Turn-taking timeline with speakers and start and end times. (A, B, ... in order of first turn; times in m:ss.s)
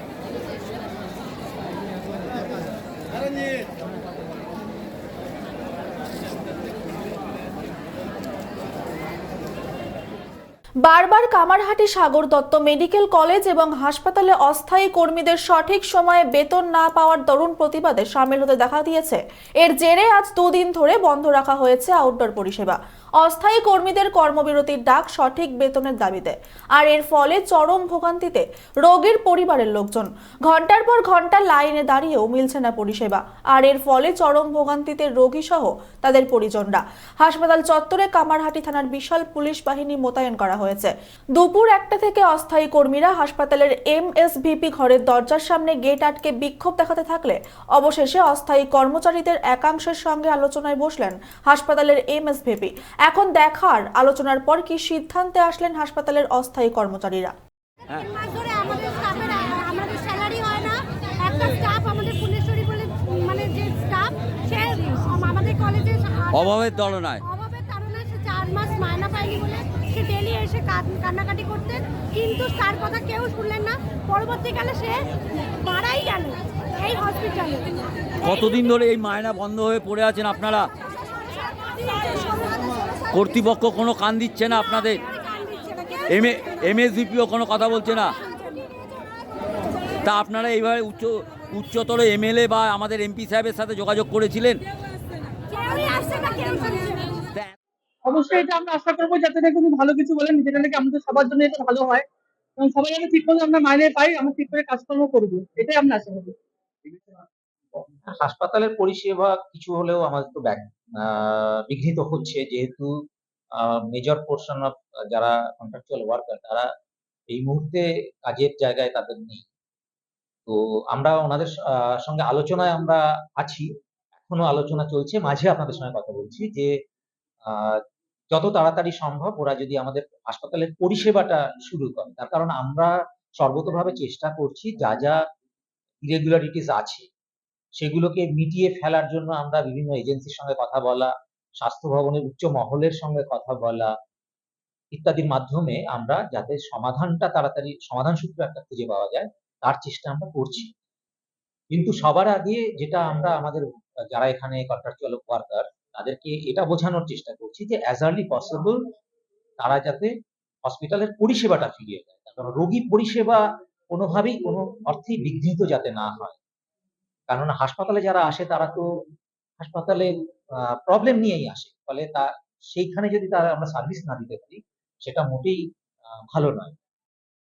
0:10.8-0:57.3 A
0:58.0-1:06.5 B
1:06.3-1:07.2 C
1:07.2-1:15.0 B
1:15.6-1:18.1 B
1:18.2-1:20.7 C
1:21.3-1:23.0 B
1:23.1-1:25.0 C
1:25.0-1:26.0 B
1:26.1-1:28.2 C
1:28.3-1:28.8 B
1:30.0-1:34.6 C
1:35.5-1:37.1 B
1:38.0-1:42.0 D
1:42.6-1:46.4 D
1:48.1-1:52.9 E
1:53.6-1:56.7 E
1:57.3-1:59.4 E
2:00.5-2:03.7 E
2:04.3-2:06.7 E
2:07.4-2:07.8 E
2:08.3-2:15.2 E
2:16.0-2:17.1 E
2:17.8-2:23.9 E
2:24.9-2:30.7 E
2:31.7-2:38.8 E
2:39.6-2:40.1 E
2:40.6-2:46.4 E
2:47.3-2:48.8 E
2:49.6-2:55.6 E
2:56.3-2:56.8 E